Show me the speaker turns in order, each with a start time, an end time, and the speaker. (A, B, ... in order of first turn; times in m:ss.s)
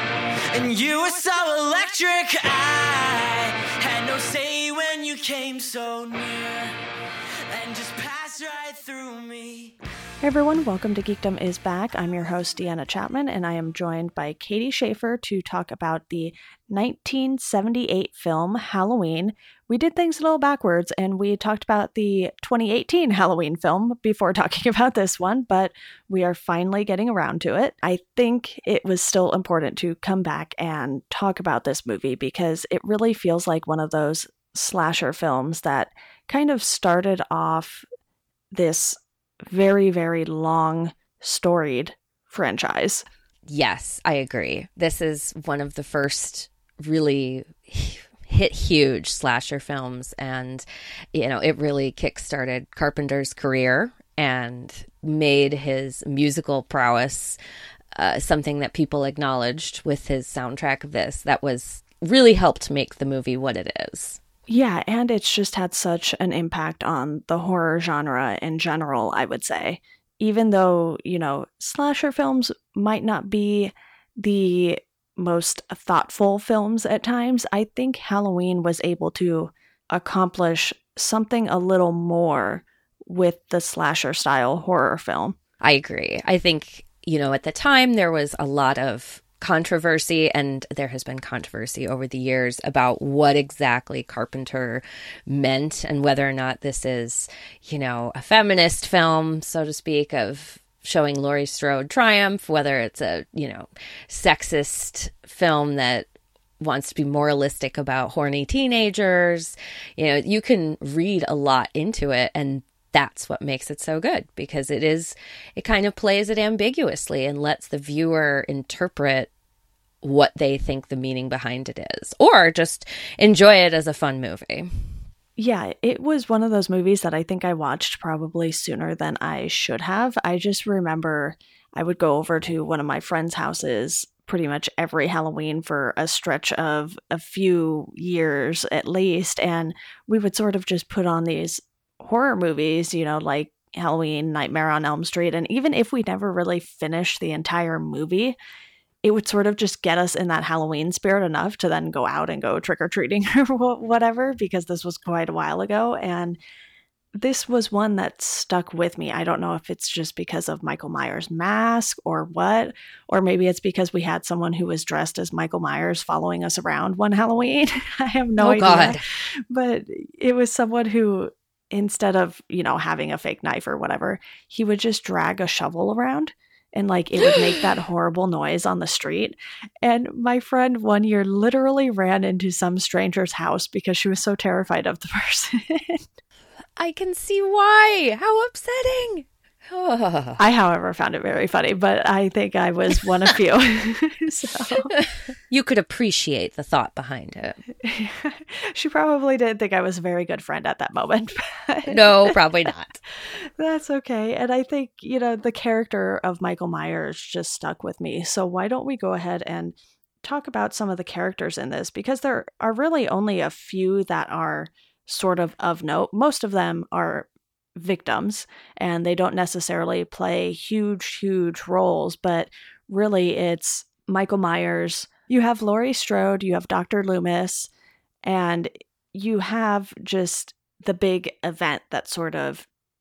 0:00.5-0:06.7 A
0:07.5-0:09.8 A
0:10.2-0:37.9 B
0:38.5-0:43.0 B
0:43.5-0:57.4 C
0:58.0-1:04.2 C
1:04.5-1:25.4 B
1:25.6-1:46.1 C
1:46.6-1:59.3 C
2:00.0-2:04.7 C
2:05.4-2:28.4 B
2:29.0-2:36.4 B
2:37.2-3:06.1 B
2:48.4-2:49.0 C
2:57.3-2:57.6 C
3:06.8-3:10.4 C
3:10.4-3:15.0 B
3:14.9-3:17.6 C
3:17.8-3:22.4 B
3:21.9-3:23.0 C
3:23.6-3:47.7 B
3:48.2-3:52.7 B